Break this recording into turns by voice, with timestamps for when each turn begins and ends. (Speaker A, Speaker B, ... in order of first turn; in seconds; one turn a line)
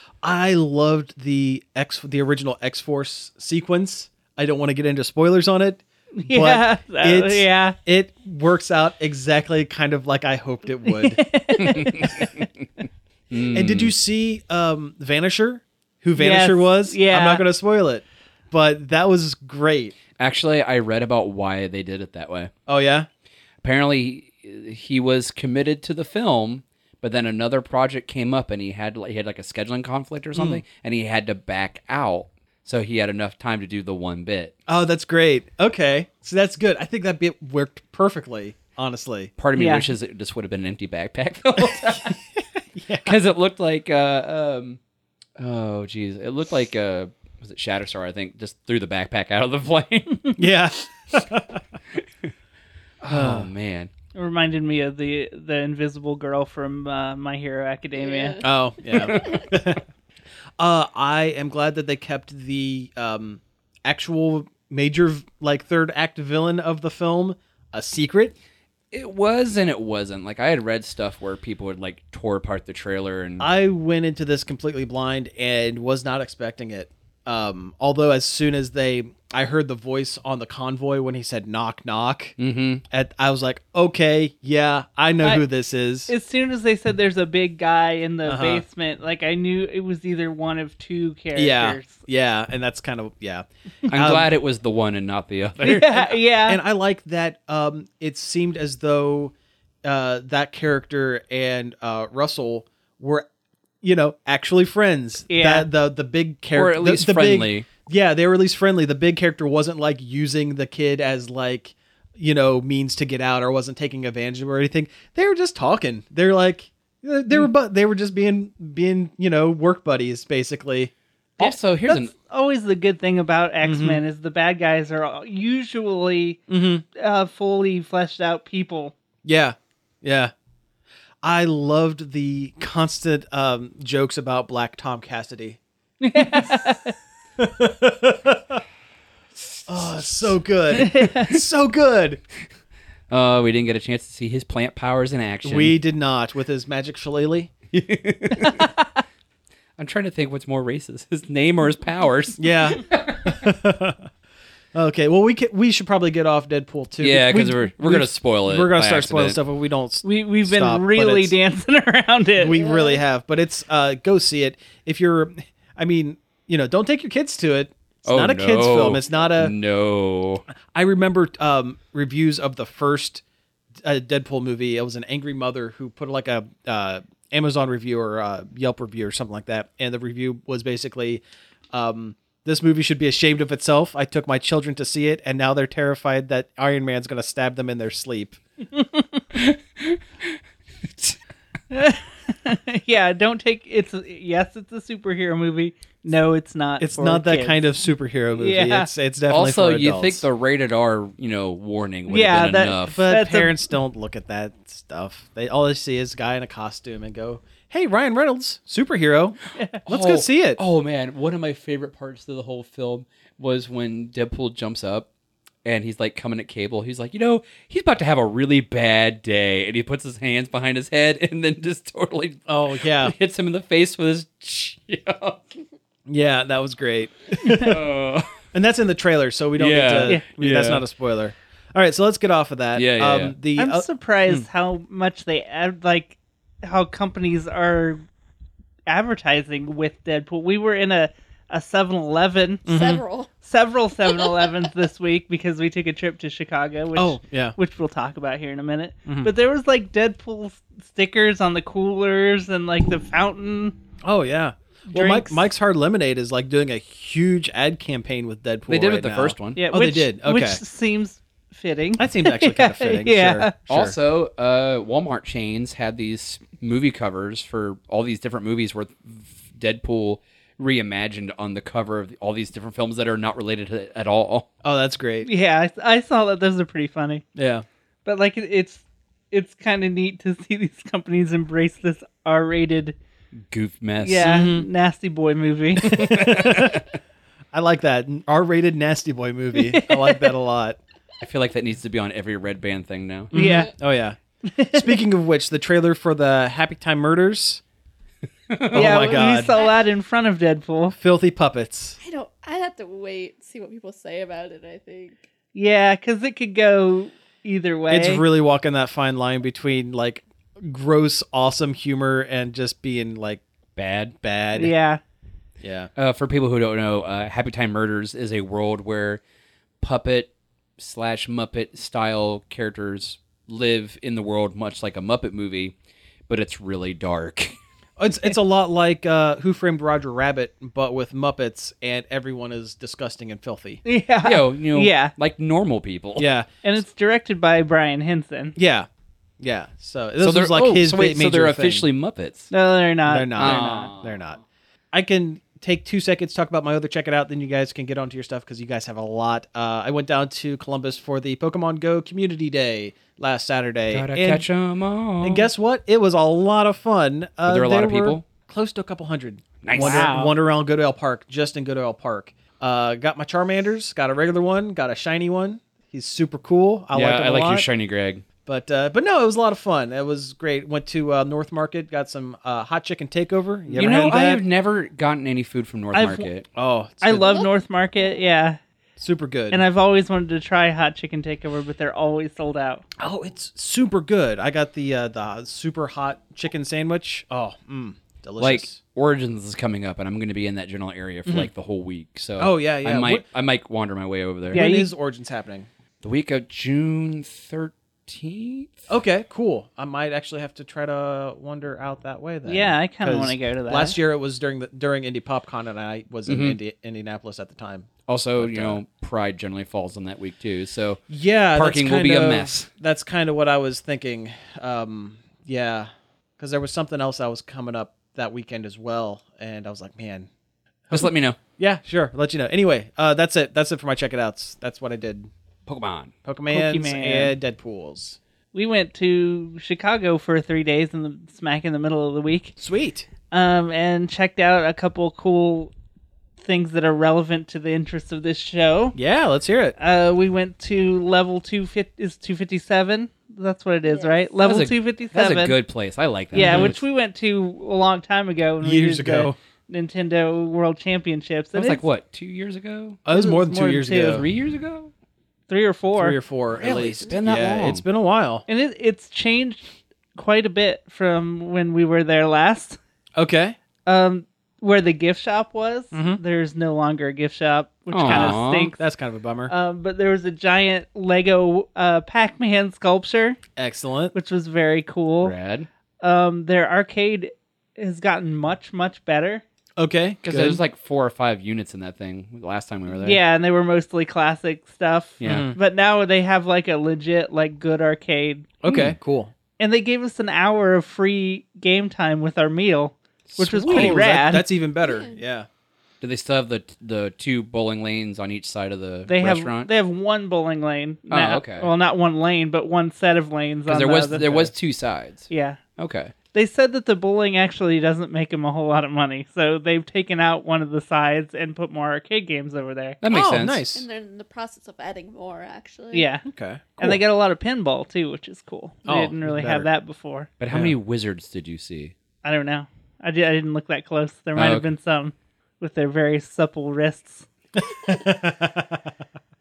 Speaker A: 0.2-11.2
Speaker B: 6.1-7.8
Speaker B: 10.9-12.3
Speaker C: 11.6-12.7
Speaker C: 13.3-13.9
Speaker A: 13.5-19.9
Speaker B: 16.2-17.4
Speaker C: 20.2-22.5
Speaker A: 22.7-23.1
Speaker C: 23.6-34.5
Speaker A: 30.3-30.6
Speaker A: 34.7-39.3
Speaker C: 39.4-42.2
Speaker B: 39.5-39.9
Speaker A: 42.7-43.2
Speaker C: 43.0-44.8
Speaker C: 45.4-50.5
Speaker A: 50.4-51.6
Speaker A: 53.0-53.5
Speaker C: 53.0-53.9
Speaker B: 54.1-58.4
Speaker D: 58.0-58.5
Speaker A: 58.4-59.8
Speaker C: 58.9-59.4
Speaker D: 59.1-59.5
Speaker A: 60.6-68.3
Speaker C: 68.9-73.5
Speaker A: 73.4-82.3
Speaker C: 82.4-82.8
Speaker A: 82.9-86.1
Speaker B: 86.1-92.0
Speaker A: 88.2-88.6
Speaker A: 91.3-94.3
Speaker C: 93.9-95.9
Speaker B: 95.6-96.6
Speaker A: 95.7-103.2
Speaker A: 103.8-120.9
Speaker B: 105.3-105.7
Speaker C: 106.5-107.7
Speaker C: 121.4-122.1
Speaker B: 121.4-126.4
Speaker A: 123.6-124.0
Speaker A: 126.5-126.8
Speaker B: 126.9-128.9
Speaker A: 129.2-130.3
Speaker A: 131.2-135.6
Speaker B: 136.0-136.9
Speaker A: 136.2-136.5
Speaker A: 137.4-138.6
Speaker C: 139.4-140.3
Speaker A: 139.7-142.2
Speaker B: 140.7-141.4
Speaker C: 143.1-145.8
Speaker A: 145.4-147.5
Speaker C: 147.7-148.7
Speaker B: 148.4-148.8
Speaker C: 149.8-153.5
Speaker A: 152.4-154.1
Speaker A: 154.7-161.3
Speaker C: 157.0-159.4
Speaker B: 160.0-162.6
Speaker A: 162.4-169.5
Speaker D: 162.4-163.0
Speaker C: 168.1-170.4
Speaker A: 170.7-173.2
Speaker A: 173.8-188.4
Speaker C: 189.3-191.2
Speaker B: 191.7-197.6
Speaker A: 196.8-200.2
Speaker B: 198.3-198.9
Speaker C: 199.3-203.1
Speaker B: 202.1-203.6
Speaker A: 202.8-210.6
Speaker C: 209.8-215.1
Speaker C: 215.6-225.6
Speaker A: 222.5-223.1
Speaker A: 226.1-227.8
Speaker B: 227.4-227.7
Speaker C: 227.6-228.3
Speaker A: 228.5-234.5
Speaker C: 229.6-230.8
Speaker C: 232.7-233.3
Speaker B: 233.6-238.0
Speaker B: 238.9-242.7
Speaker A: 242.7-243.0
Speaker D: 242.7-243.3
Speaker B: 243.4-253.8
Speaker D: 244.1-244.4
Speaker A: 246.9-247.6
Speaker A: 249.1-249.3
Speaker A: 254.0-260.6
Speaker B: 254.9-255.5
Speaker C: 258.7-259.7
Speaker B: 259.6-263.5
Speaker A: 262.0-263.9
Speaker C: 263.7-274.4
Speaker A: 274.6-275.3
Speaker B: 275.2-277.2
Speaker A: 277.3-277.6
Speaker B: 278.0-282.9
Speaker C: 283.5-284.4
Speaker B: 284.0-286.2
Speaker A: 284.2-284.6
Speaker A: 285.8-286.8
Speaker C: 285.8-286.8
Speaker A: 287.5-290.8
Speaker B: 289.5-290.3
Speaker C: 291.2-293.3
Speaker A: 293.3-294.2
Speaker B: 293.3-293.7
Speaker B: 294.4-295.0
Speaker A: 294.7-297.6
Speaker C: 298.5-299.3
Speaker A: 298.7-299.6
Speaker B: 298.7-300.9
Speaker D: 299.3-299.8
Speaker A: 300.9-302.0
Speaker D: 302.0-305.2
Speaker B: 305.5-308.2
Speaker A: 307.9-313.4
Speaker C: 313.8-314.1
Speaker A: 314.2-314.7
Speaker B: 314.5-315.0
Speaker A: 315.6-315.9
Speaker C: 315.9-319.2
Speaker C: 319.8-325.7
Speaker C: 326.3-327.5
Speaker A: 328.0-333.8
Speaker B: 333.8-335.1
Speaker C: 334.2-336.3
Speaker A: 336.2-336.5
Speaker B: 336.6-338.6
Speaker A: 338.6-338.9
Speaker A: 339.4-341.9
Speaker C: 340.2-342.5
Speaker B: 342.5-343.9
Speaker A: 343.1-344.4
Speaker C: 343.4-344.2
Speaker A: 344.9-354.4
Speaker C: 353.9-355.5
Speaker A: 355.2-367.7
Speaker C: 357.4-358.2
Speaker C: 359.6-360.2
Speaker B: 359.7-360.3
Speaker C: 366.9-368.2
Speaker A: 368.4-374.4
Speaker B: 373.7-374.0
Speaker C: 373.7-376.5
Speaker B: 375.9-376.3
Speaker A: 376.5-377.4
Speaker B: 377.0-378.6
Speaker D: 377.2-377.5
Speaker A: 379.0-379.6
Speaker B: 379.5-382.8
Speaker A: 383.0-388.8
Speaker C: 388.4-394.7
Speaker A: 391.2-391.5
Speaker A: 392.4-393.2
Speaker B: 394.5-394.9
Speaker A: 394.5-395.7
Speaker C: 396.0-398.9
Speaker A: 398.9-408.8
Speaker B: 402.4-404.0
Speaker C: 406.2-406.6
Speaker C: 408.1-411.0
Speaker A: 411.1-420.3
Speaker C: 411.5-412.7
Speaker A: 420.9-425.3
Speaker C: 420.9-421.4
Speaker C: 425.7-426.1
Speaker A: 426.2-428.2
Speaker B: 426.5-427.3
Speaker B: 428.5-432.6
Speaker A: 432.6-433.1
Speaker B: 433.3-435.7
Speaker B: 436.4-439.0
Speaker A: 438.9-439.8
Speaker B: 439.8-445.6
Speaker D: 443.9-444.2
Speaker C: 444.4-446.8
Speaker B: 446.3-451.8
Speaker A: 446.4-446.7
Speaker A: 448.6-449.4
Speaker C: 451.5-453.0
Speaker A: 453.0-454.2
Speaker B: 453.1-454.2
Speaker C: 454.0-454.9
Speaker B: 455.5-456.2
Speaker A: 455.9-458.4
Speaker C: 456.6-457.8
Speaker B: 458.5-462.8
Speaker A: 463.1-463.6
Speaker B: 463.9-468.8
Speaker A: 465.9-466.2
Speaker C: 467.9-468.7
Speaker A: 468.0-469.5
Speaker B: 469.5-473.4
Speaker A: 473.6-474.1
Speaker B: 474.1-475.3
Speaker C: 475.2-475.7
Speaker B: 476.0-479.4
Speaker A: 479.8-480.6
Speaker C: 480.2-483.2
Speaker B: 483.0-488.5
Speaker C: 485.2-485.5
Speaker A: 485.2-485.6
Speaker A: 488.6-489.3
Speaker C: 488.6-488.9
Speaker B: 489.6-494.5
Speaker C: 493.3-494.1
Speaker A: 493.7-495.5
Speaker D: 494.8-495.2
Speaker C: 496.0-499.7
Speaker B: 499.1-504.2
Speaker C: 501.1-501.7
Speaker C: 503.7-506.1
Speaker A: 504.2-504.5
Speaker B: 505.3-505.6
Speaker B: 506.3-513.0
Speaker C: 513.0-513.6
Speaker A: 513.1-513.8
Speaker D: 513.7-516.1
Speaker B: 515.9-516.2
Speaker A: 516.3-517.0
Speaker B: 516.8-520.3
Speaker A: 518.8-519.7
Speaker C: 520.4-521.9
Speaker B: 522.2-527.3
Speaker C: 524.4-524.7
Speaker A: 527.7-528.8